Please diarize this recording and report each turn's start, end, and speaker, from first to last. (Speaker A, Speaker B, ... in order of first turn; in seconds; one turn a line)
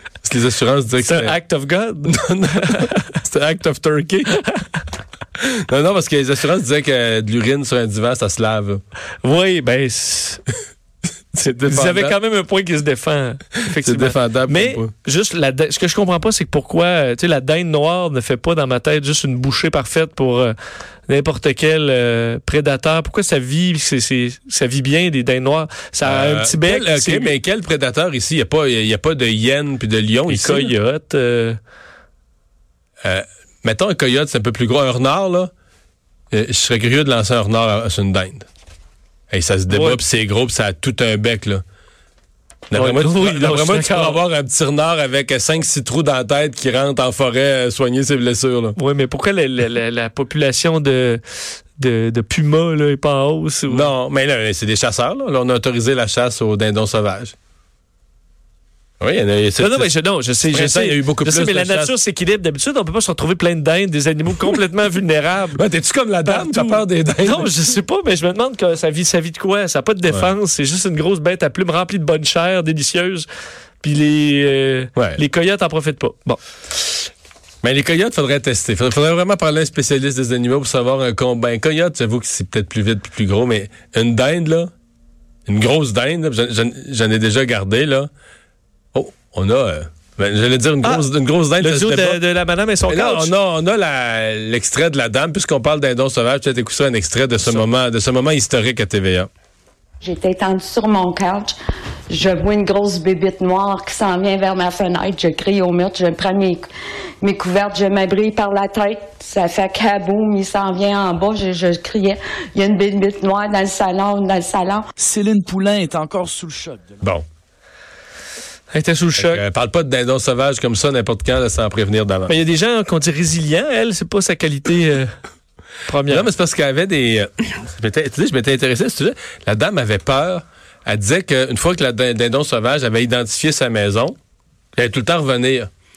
Speaker A: 0.2-1.4
Speaker B: 1.0-3.0
Speaker A: 2.1-4.4
Speaker A: 5.4-8.8
Speaker B: 9.2-10.4
Speaker A: 11.3-12.2
Speaker B: 11.7-20.5
Speaker A: 13.6-14.9
Speaker B: 21.1-27.4
Speaker A: 26.0-30.7
Speaker B: 30.3-31.6
Speaker A: 33.0-35.5
Speaker A: 36.3-38.5
Speaker A: 39.3-41.6
Speaker B: 39.7-40.0
Speaker A: 42.7-48.8
Speaker B: 42.7-44.2
Speaker B: 48.8-51.2
Speaker B: 51.8-53.9
Speaker A: 53.7-57.3
Speaker A: 59.0-59.9
Speaker B: 59.6-65.6
Speaker A: 60.4-61.9
Speaker A: 65.5-67.5
Speaker B: 66.2-73.2
Speaker B: 73.8-76.4
Speaker A: 77.6-84.7
Speaker A: 85.5-88.1
Speaker A: 88.9-92.2
Speaker B: 90.8-93.3
Speaker A: 92.9-99.3
Speaker C: 100.0-101.5
Speaker C: 102.1-106.7
Speaker C: 107.2-114.8
Speaker D: 115.0-117.0
Speaker B: 118.7-119.4
Speaker A: 119.2-122.3
Speaker B: 122.3-125.1
Speaker B: 125.8-126.3
Speaker A: 126.1-134.2
Speaker A: 134.8-135.7